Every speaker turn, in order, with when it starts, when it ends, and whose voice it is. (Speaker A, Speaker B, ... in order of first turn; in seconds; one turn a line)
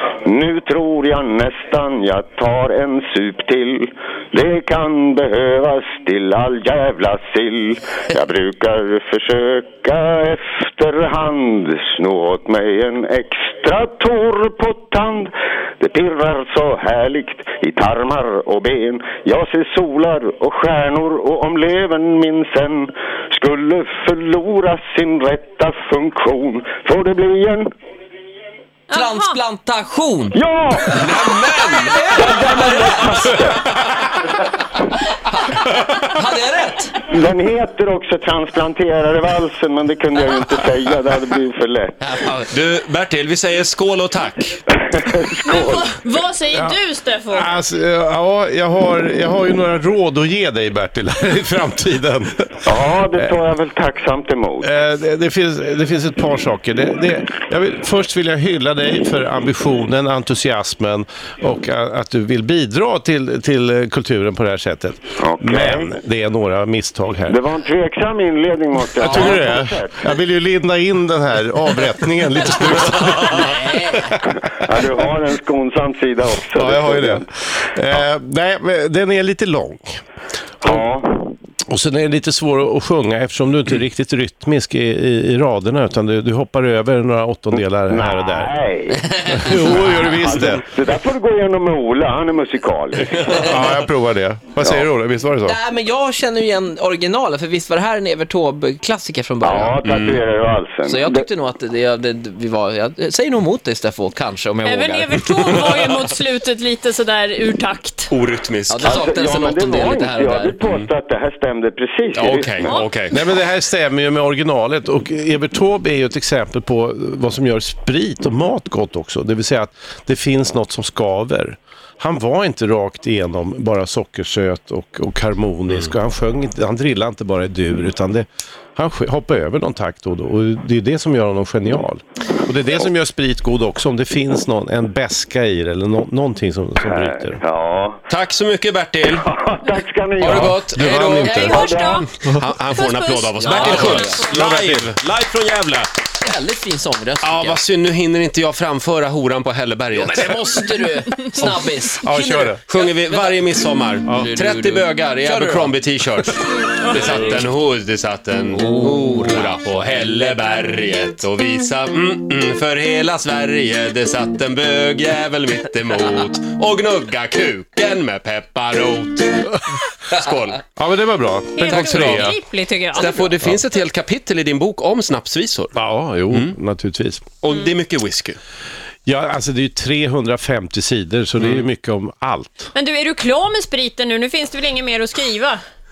Speaker A: 0.2-27.6
Speaker B: 28.9-29.4
Speaker C: 28.9-30.4
Speaker A: 30.3-31.0
Speaker D: 30.8-33.3
Speaker C: 30.9-33.5
Speaker A: 32.1-33.6
Speaker C: 35.3-37.0
Speaker A: 37.0-42.0
Speaker C: 42.0-42.5
Speaker D: 42.5-44.6
Speaker A: 44.7-45.9
Speaker B: 45.5-47.5
Speaker E: 46.5-53.4
Speaker A: 52.6-54.7
Speaker E: 54.6-67.4
Speaker A: 65.2-65.9
Speaker A: 67.3-70.0
Speaker E: 69.0-74.2
Speaker C: 73.2-74.2
Speaker A: 74.4-77.2
Speaker E: 76.5-80.0
Speaker A: 80.6-81.3
Speaker E: 81.7-88.5
Speaker A: 87.9-89.1
Speaker C: 89.2-89.5
Speaker E: 89.2-90.7
Speaker A: 90.2-93.5
Speaker E: 93.3-95.6
Speaker C: 95.4-99.8
Speaker A: 99.4-101.2
Speaker D: 99.8-100.2
Speaker C: 100.8-105.8
Speaker B: 104.6-108.1
Speaker D: 108.1-109.0
Speaker C: 108.7-110.6
Speaker A: 108.8-112.8
Speaker D: 112.1-113.2
Speaker B: 112.6-112.9
Speaker E: 113.1-137.4
Speaker A: 136.8-138.0
Speaker D: 138.1-139.3
Speaker A: 139.0-140.6
Speaker D: 140.2-141.5
Speaker E: 140.2-142.5
Speaker B: 140.9-142.1
Speaker A: 141.3-142.0
Speaker D: 142.2-145.9
Speaker B: 142.7-144.2
Speaker C: 143.4-144.3
Speaker E: 144.3-144.9
Speaker C: 146.2-147.6
Speaker D: 147.2-150.4
Speaker C: 150.0-153.3
Speaker E: 151.9-152.6
Speaker D: 152.7-170.6
Speaker C: 154.1-156.2
Speaker C: 158.6-159.4
Speaker E: 170.8-172.4
Speaker B: 171.6-173.3
Speaker D: 171.6-172.3
Speaker D: 172.9-175.8
Speaker E: 175.7-177.2
Speaker D: 176.3-176.5
Speaker D: 177.4-178.4
Speaker E: 179.1-182.7
Speaker D: 181.4-181.7
Speaker B: 182.7-185.6